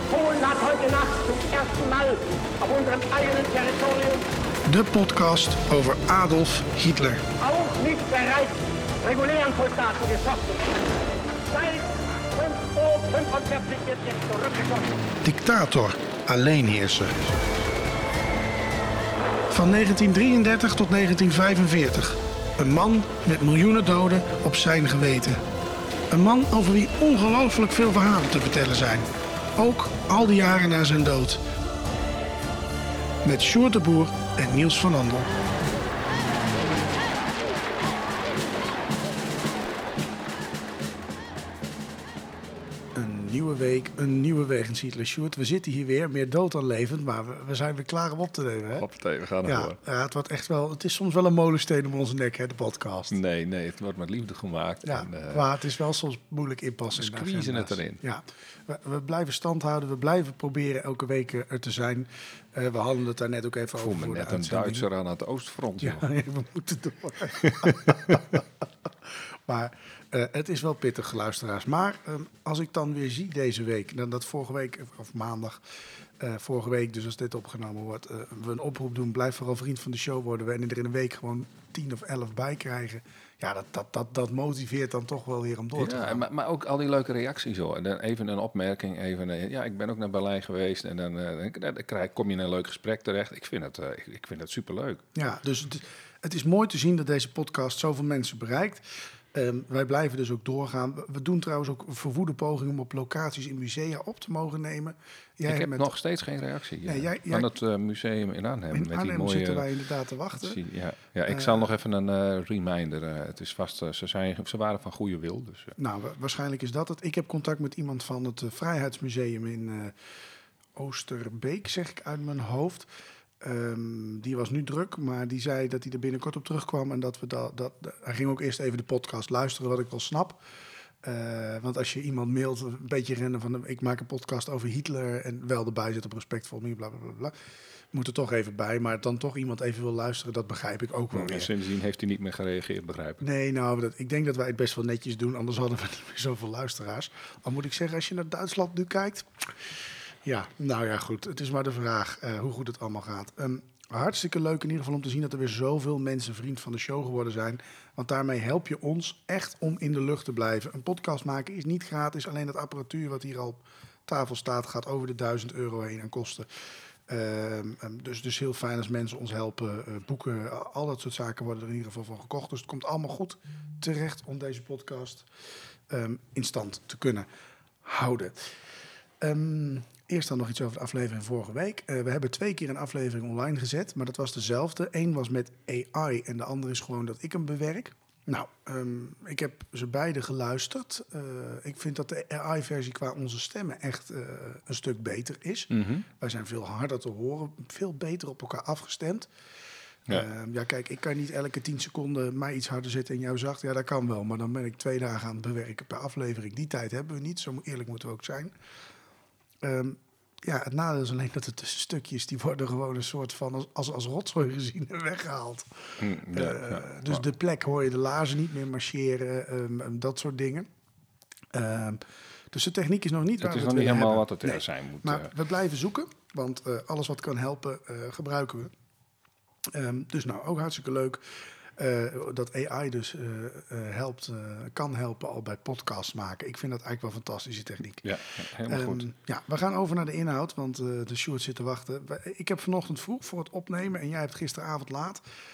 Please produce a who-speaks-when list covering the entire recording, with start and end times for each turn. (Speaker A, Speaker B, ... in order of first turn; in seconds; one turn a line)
Speaker A: 0.1-4.2
Speaker B: 4.7-7.2
Speaker A: 7.4-10.7
Speaker A: 11.5-14.9
Speaker B: 15.2-17.3
Speaker B: 19.5-25.4
Speaker B: 26.1-31.4
Speaker B: 33.2-35.3
Speaker B: 42.9-48.9
Speaker C: 48.8-49.8
Speaker B: 49.4-53.2
Speaker C: 53.1-55.5
Speaker B: 54.8-64.8
Speaker C: 56.9-58.0
Speaker C: 63.8-66.1
Speaker B: 65.8-68.4
Speaker C: 67.4-68.2
Speaker B: 69.1-86.2
Speaker C: 85.8-95.0
Speaker B: 95.1-105.9
Speaker C: 105.5-109.7
Speaker B: 106.8-107.5
Speaker B: 108.7-110.6
Speaker C: 110.3-115.7
Speaker B: 111.3-111.6
Speaker B: 115.8-120.1
Speaker B: 120.7-122.9
Speaker B: 123.4-130.4
Speaker B: 131.0-137.3
Speaker B: 137.9-141.5
Speaker C: 141.1-143.2
Speaker B: 143.2-175.3
Speaker B: 175.9-177.3
Speaker B: 177.8-178.6
Speaker B: 179.2-199.3
Speaker C: 195.7-196.1
Speaker B: 200.1-208.5
Speaker B: 209.6-220.7
Speaker C: 216.0-217.2
Speaker B: 221.5-228.7
Speaker C: 223.4-225.3
Speaker B: 229.7-245.2
Speaker C: 238.0-239.1